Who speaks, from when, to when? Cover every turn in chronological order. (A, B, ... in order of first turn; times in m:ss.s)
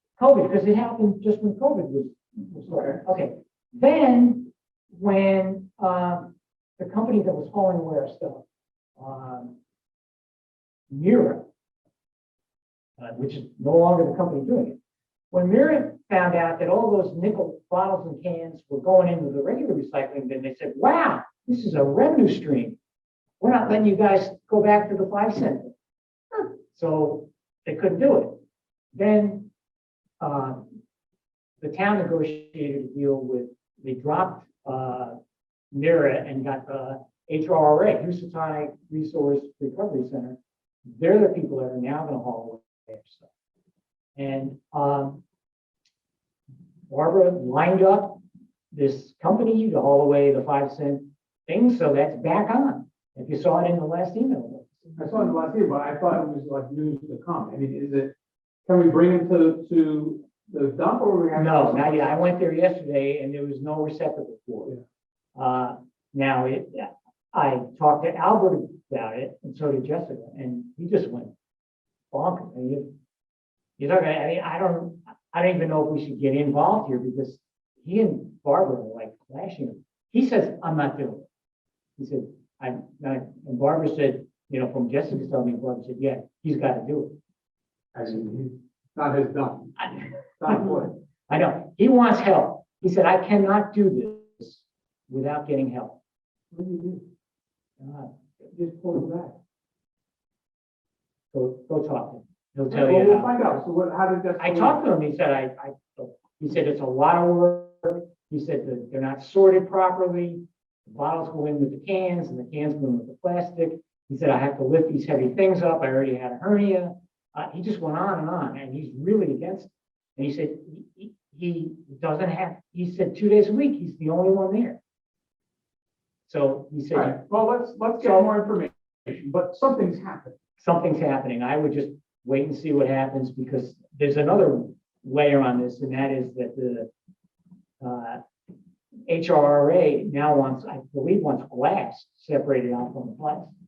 0:00.2-0:08.4 A
0:02.7-0:03.0 B
0:09.0-0:09.5 A
0:10.9-0:11.5 A
0:13.0-0:14.8 A
0:15.3-0:22.8 A
0:23.4-0:25.7 A
0:26.3-0:28.4 A
0:28.9-0:29.5 A
0:30.2-0:30.7 A
0:31.6-0:35.2 A
0:35.7-0:43.2 A
0:44.2-0:45.2 A
0:46.9-0:48.2 A
0:48.7-0:54.8 A
0:55.0-0:58.1 B
0:58.7-1:02.3 B
1:01.3-1:04.7 A
1:05.3-1:11.3 A
1:12.1-1:12.9 A
1:13.8-1:21.2 A
1:22.0-1:27.2 A
1:27.9-1:30.9 B
1:30.5-1:36.0 A
1:36.5-1:37.0 B
1:37.8-1:38.1 A
1:38.5-1:39.4 B
1:41.3-1:43.4 A
1:42.7-1:44.8 B
1:44.4-2:04.8 A
2:06.3-2:07.2 A
2:06.9-2:10.4 B
2:08.0-2:08.3 A
2:10.6-2:16.9 A
2:17.8-2:18.2 A
2:19.1-2:23.5 A